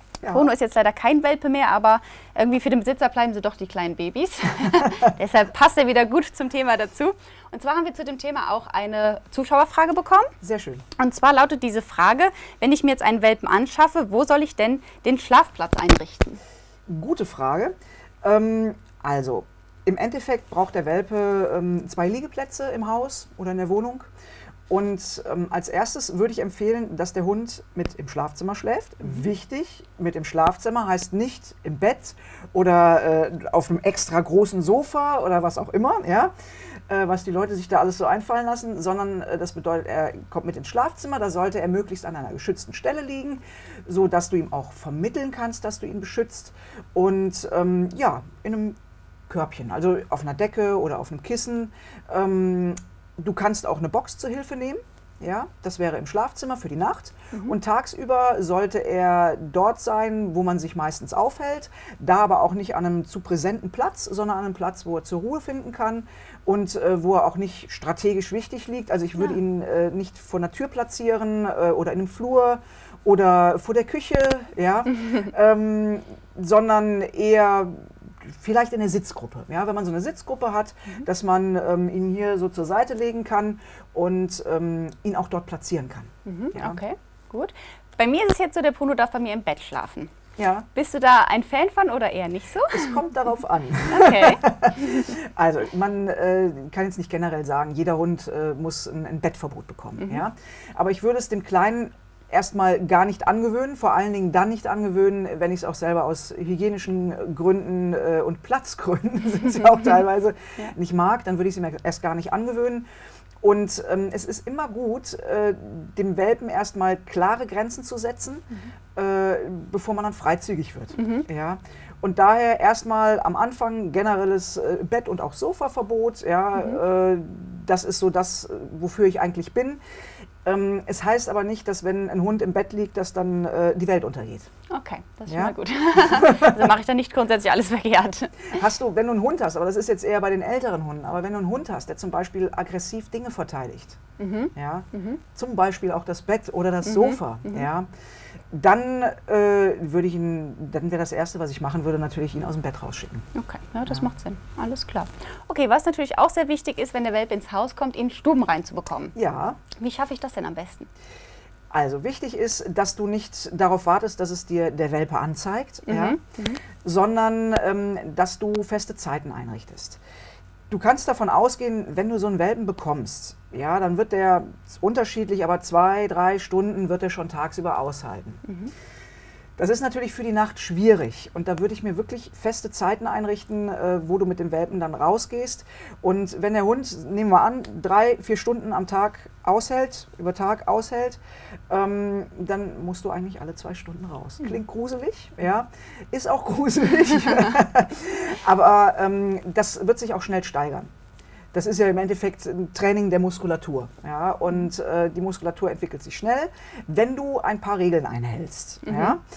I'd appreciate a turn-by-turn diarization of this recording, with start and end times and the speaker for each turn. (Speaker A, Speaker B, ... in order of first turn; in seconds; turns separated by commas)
Speaker A: 0.2-0.5, Speaker B: 0.3-10.3, Speaker A: 10.4-10.8, Speaker B: 11.0-16.4, Speaker A: 16.9-24.1, Speaker A: 24.7-36.3, Speaker B: 29.0-29.3, Speaker A: 36.9-48.8, Speaker A: 49.3-86.8, Speaker B: 86.2-90.2, Speaker A: 90.4-90.7, Speaker B: 90.7-93.0, Speaker A: 92.7-112.9, Speaker B: 93.9-95.1, Speaker A: 113.4-129.8, Speaker B: 121.0-121.3, Speaker B: 126.5-126.8, Speaker A: 130.4-134.5, Speaker B: 134.7-138.6, Speaker A: 135.3-136.6, Speaker A: 138.5-144.0, Speaker B: 144.2-145.2, Speaker A: 144.6-147.9, Speaker B: 146.8-147.7, Speaker A: 148.5-153.2, Speaker B: 153.3-160.9, Speaker A: 159.2-159.6, Speaker A: 161.7-166.2, Speaker B: 165.9-166.6, Speaker A: 166.8-170.0, Speaker A: 170.7-178.4, Speaker B: 178.4-178.7, Speaker A: 179.6-200.9, Speaker A: 201.5-209.2, Speaker B: 208.8-209.2